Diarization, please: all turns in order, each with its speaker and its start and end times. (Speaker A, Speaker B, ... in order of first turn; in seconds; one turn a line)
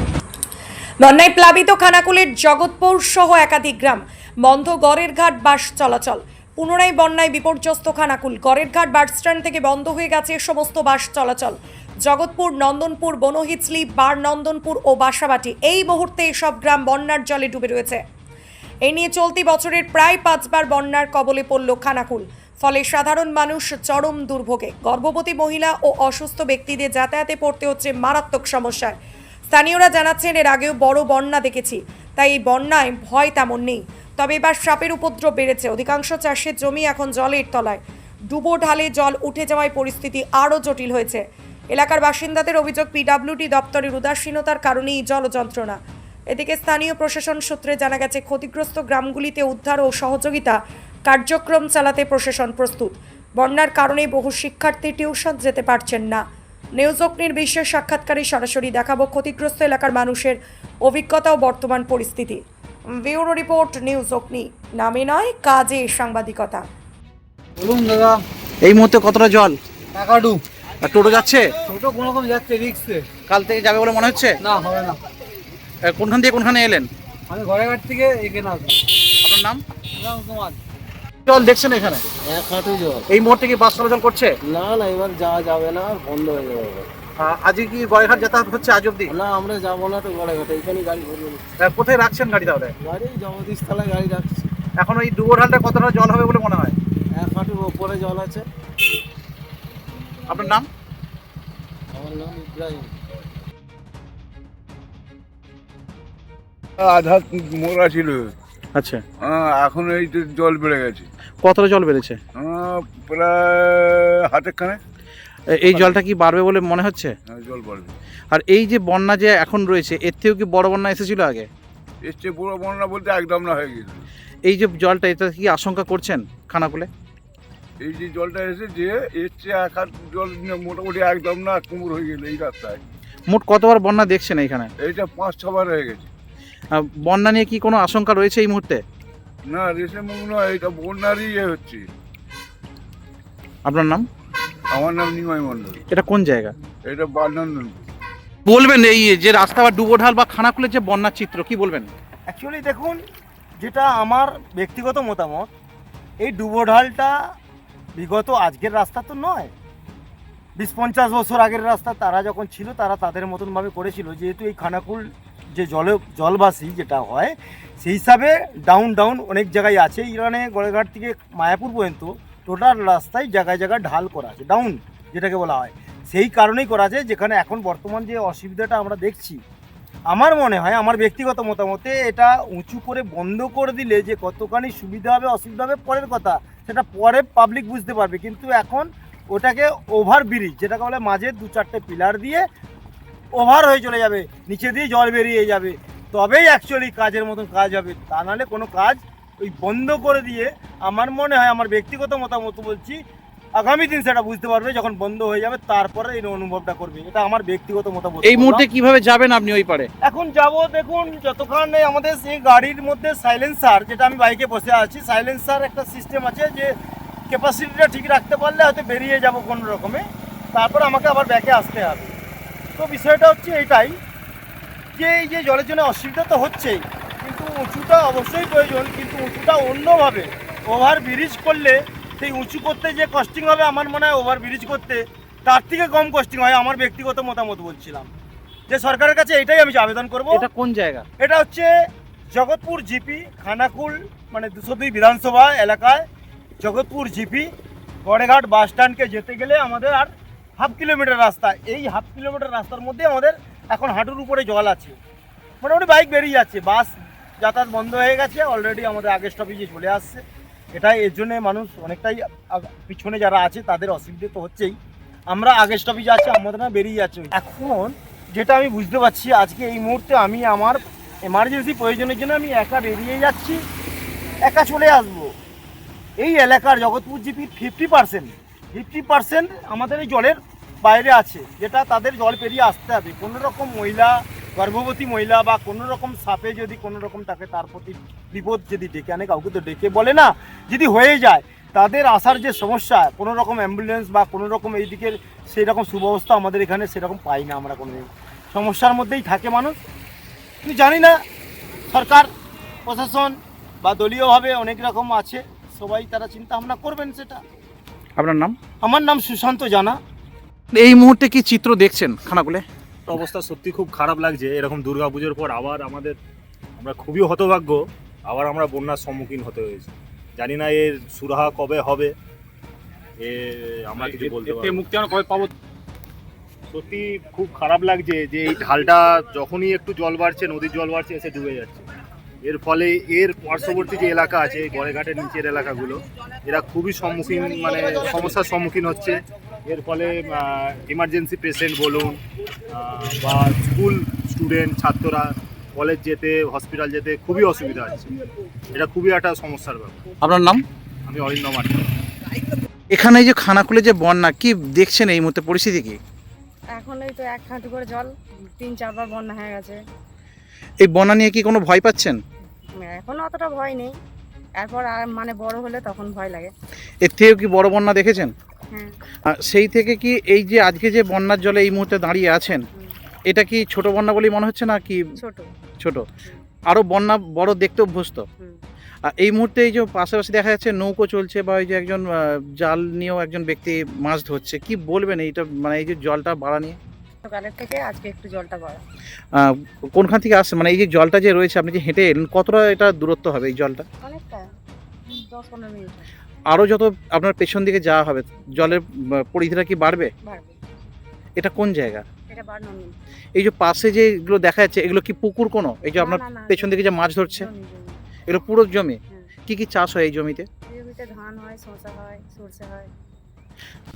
Speaker A: 1.0-18.0
Speaker A: 18.8-28.9
Speaker A: 29.5-45.8
Speaker A: 46.3-56.2
Speaker A: 56.8-66.6
Speaker B: 67.6-68.2
Speaker C: 68.6-69.5
Speaker B: 69.9-70.4
Speaker C: 70.8-71.5
Speaker B: 71.7-73.0
Speaker C: 73.3-74.3
Speaker B: 74.5-75.0
Speaker C: 75.9-76.9
Speaker B: 77.3-78.8
Speaker C: 79.2-79.6
Speaker B: 80.0-80.6
Speaker C: 81.3-82.0
Speaker D: 82.3-83.0
Speaker C: 83.1-84.3
Speaker D: 84.5-86.9
Speaker C: 87.2-89.1
Speaker D: 89.1-91.5
Speaker C: 91.6-92.7
Speaker D: 92.8-94.5
Speaker C: 94.8-96.8
Speaker D: 97.2-98.4
Speaker C: 100.3-100.7
Speaker D: 101.9-102.9
Speaker E: 106.8-108.3
Speaker C: 108.7-109.0
Speaker E: 109.2-111.1
Speaker C: 111.4-112.2
Speaker E: 112.4-114.8
Speaker C: 115.6-117.1
Speaker E: 115.7-116.0
Speaker E: 117.3-117.9
Speaker C: 118.3-121.5
Speaker E: 122.0-124.1
Speaker C: 124.5-126.9
Speaker E: 127.8-132.8
Speaker C: 133.3-134.7
Speaker E: 134.8-136.1
Speaker C: 136.7-138.8
Speaker E: 139.5-141.9
Speaker C: 143.6-144.0
Speaker E: 144.7-145.8
Speaker C: 145.9-146.5
Speaker E: 146.8-147.8
Speaker C: 148.4-151.9
Speaker F: 152.3-153.0
Speaker F: 153.6-155.5
Speaker F: 156.2-157.1
Speaker F: 157.9-159.5
Speaker F: 160.6-179.4
Speaker F: 180.1-192.4
Speaker F: 193.3-203.0
Speaker F: 203.6-208.6
Speaker C: 208.2-209.9
Speaker F: 210.0-216.7
Speaker F: 217.3-220.0
Speaker F: 220.5-222.1
Speaker F: 222.8-223.9
Speaker F: 224.9-238.1
Speaker F: 238.7-240.4
Speaker C: 240.3-241.1
Speaker F: 241.2-241.7
Speaker F: 242.3-246.0
Speaker F: 246.6-247.5
Speaker F: 248.0-255.0
Speaker F: 255.6-260.2
Speaker F: 260.7-264.7
Speaker F: 265.3-273.6
Speaker F: 274.4-275.3
Speaker F: 276.2-299.8
Speaker F: 300.6-301.1
Speaker F: 301.9-302.3
Speaker F: 302.9-307.4
Speaker C: 308.2-308.5
Speaker F: 308.8-310.0
Speaker C: 310.7-312.6
Speaker G: 313.1-316.2
Speaker G: 316.8-322.1
Speaker G: 323.2-325.5
Speaker G: 326.7-331.8
Speaker G: 332.4-342.2
Speaker G: 342.7-348.1
Speaker G: 348.7-350.0
Speaker C: 350.2-350.6
Speaker G: 351.1-351.8
Speaker C: 352.9-356.0
Speaker H: 356.7-359.8
Speaker C: 360.8-362.2
Speaker H: 362.8-363.9
Speaker H: 364.6-366.5
Speaker C: 367.0-368.3
Speaker C: 369.3-372.6
Speaker C: 373.3-375.0
Speaker H: 375.2-375.5
Speaker C: 376.7-378.2
Speaker C: 379.1-386.8
Speaker H: 387.2-388.8
Speaker C: 389.4-393.8
Speaker H: 394.0-394.4
Speaker H: 395.1-396.1
Speaker C: 396.5-400.1
Speaker H: 400.2-400.6
Speaker C: 401.4-402.0
Speaker H: 402.3-402.9
Speaker C: 403.4-407.4
Speaker H: 405.9-407.9
Speaker C: 408.3-410.5
Speaker H: 410.7-412.9